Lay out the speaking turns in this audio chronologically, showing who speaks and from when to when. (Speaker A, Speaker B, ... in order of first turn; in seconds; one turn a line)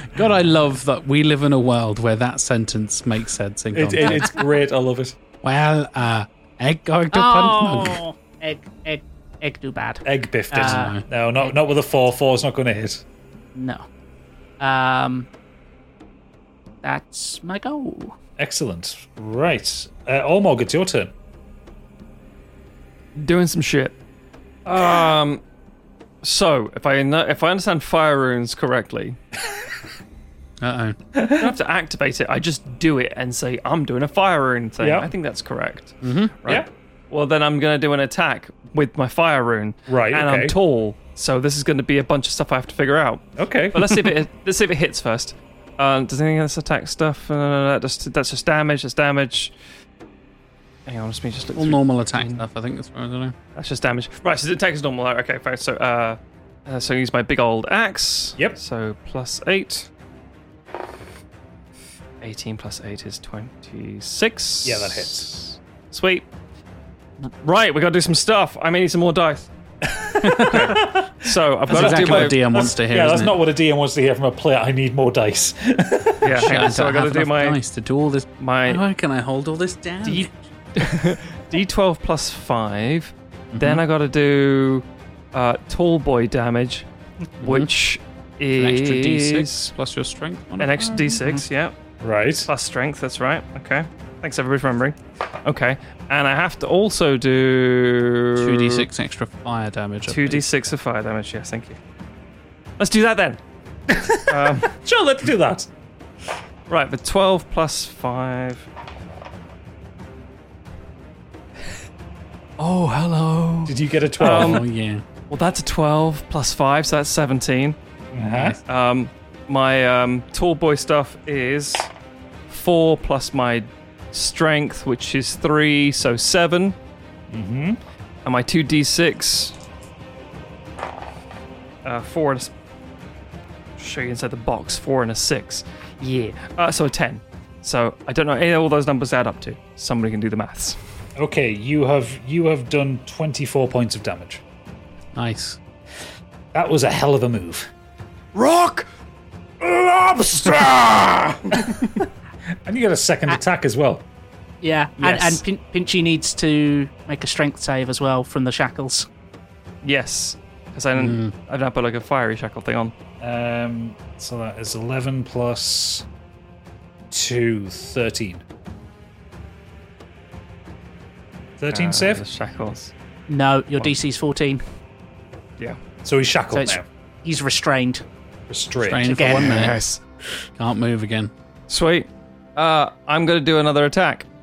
Speaker A: 0.1-4.3
Speaker B: 3.7-5.2
Speaker A: 5.4-8.0
Speaker C: 7.1-11.6
Speaker B: 10.0-13.0
Speaker A: 10.5-11.0
Speaker C: 13.5-13.8
Speaker C: 14.6-15.3
Speaker C: 16.8-18.1
Speaker B: 18.4-21.1
Speaker D: 23.1-23.9
Speaker D: 24.7-25.4
Speaker D: 26.2-29.2
Speaker A: 30.6-31.0
Speaker B: 31.1-31.5
Speaker D: 31.4-49.5
Speaker B: 34.8-35.1
Speaker A: 36.0-36.4
Speaker B: 39.9-40.5
Speaker B: 43.4-44.1
Speaker D: 50.9-52.4
Speaker A: 51.6-53.3
Speaker D: 53.5-59.9
Speaker D: 62.2-66.3
Speaker B: 64.6-65.3
Speaker D: 67.4-69.5
Speaker B: 69.9-76.5
Speaker A: 70.2-70.7
Speaker D: 70.4-72.4
Speaker A: 71.7-73.4
Speaker D: 76.2-77.6
Speaker A: 76.3-80.3
Speaker D: 78.4-78.8
Speaker D: 80.0-86.8
Speaker A: 83.5-83.8
Speaker A: 87.4-87.7
Speaker D: 87.4-89.7
Speaker A: 88.5-91.4
Speaker D: 90.6-91.7
Speaker B: 92.0-92.5
Speaker D: 92.5-98.8
Speaker A: 98.4-100.5
Speaker D: 100.1-101.8
Speaker D: 102.8-103.4
Speaker B: 103.9-105.7
Speaker D: 104.3-104.7
Speaker D: 106.7-108.7
Speaker D: 112.6-114.7
Speaker B: 113.7-114.6
Speaker A: 114.2-115.0
Speaker D: 115.3-117.8
Speaker B: 118.1-118.6
Speaker D: 118.6-121.9
Speaker D: 122.5-126.7
Speaker B: 127.3-127.8
Speaker D: 128.2-129.6
Speaker D: 131.8-132.5
Speaker D: 133.8-140.8
Speaker C: 136.0-136.3
Speaker B: 141.2-144.4
Speaker A: 145.1-145.6
Speaker B: 146.5-147.7
Speaker D: 148.3-148.9
Speaker D: 149.6-151.6
Speaker B: 152.7-154.0
Speaker C: 154.6-159.1
Speaker A: 155.0-155.4
Speaker D: 159.8-162.9
Speaker A: 160.9-161.3
Speaker B: 163.2-166.0
Speaker B: 167.1-168.4
Speaker B: 171.6-172.2
Speaker D: 171.7-172.9
Speaker C: 173.3-174.6
Speaker B: 176.0-176.8
Speaker C: 176.5-178.0
Speaker B: 178.5-179.1
Speaker A: 178.8-179.8
Speaker C: 179.1-179.7
Speaker D: 179.3-180.0
Speaker A: 180.6-181.3
Speaker D: 181.7-184.2